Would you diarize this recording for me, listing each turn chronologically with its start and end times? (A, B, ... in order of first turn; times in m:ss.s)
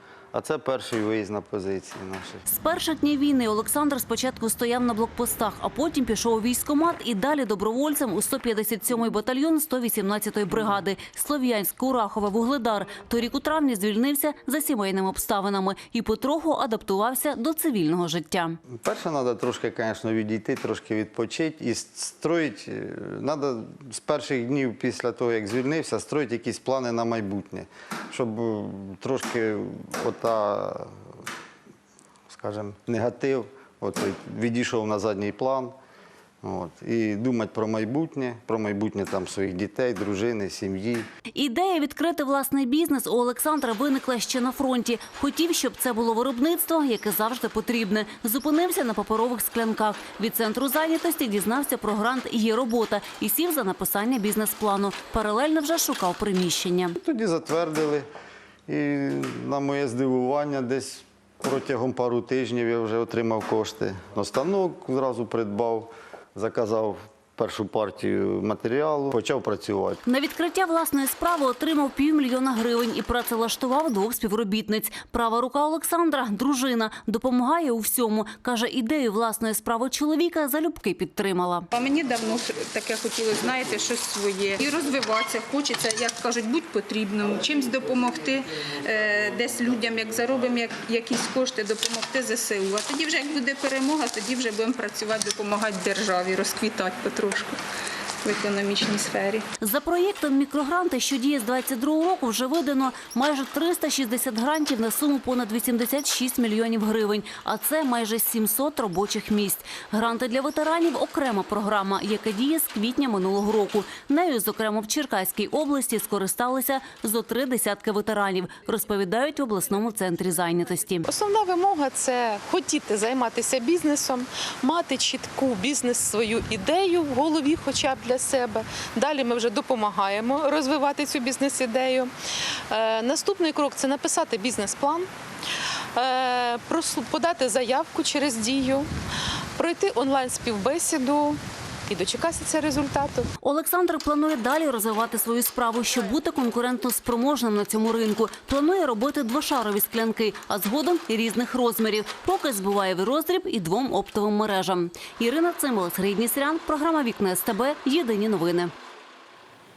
0:00.3-0:02.4 A
0:02.4-0:18.6 B
0:18.8-0:30.9 A
0:32.3-0:35.8 A
0:36.4-0:41.1 A
0:41.4-0:57.0 B
0:57.0-0:58.1 A
0:58.7-1:10.0 A
1:10.0-1:21.6 B
1:21.7-1:37.6 C
1:38.2-1:39.4 C
1:39.6-2:01.0 B
2:01.1-2:12.1 D
2:12.7-2:15.1 D
2:15.9-2:18.9 D
2:19.6-2:23.2 D
2:23.4-2:38.7 B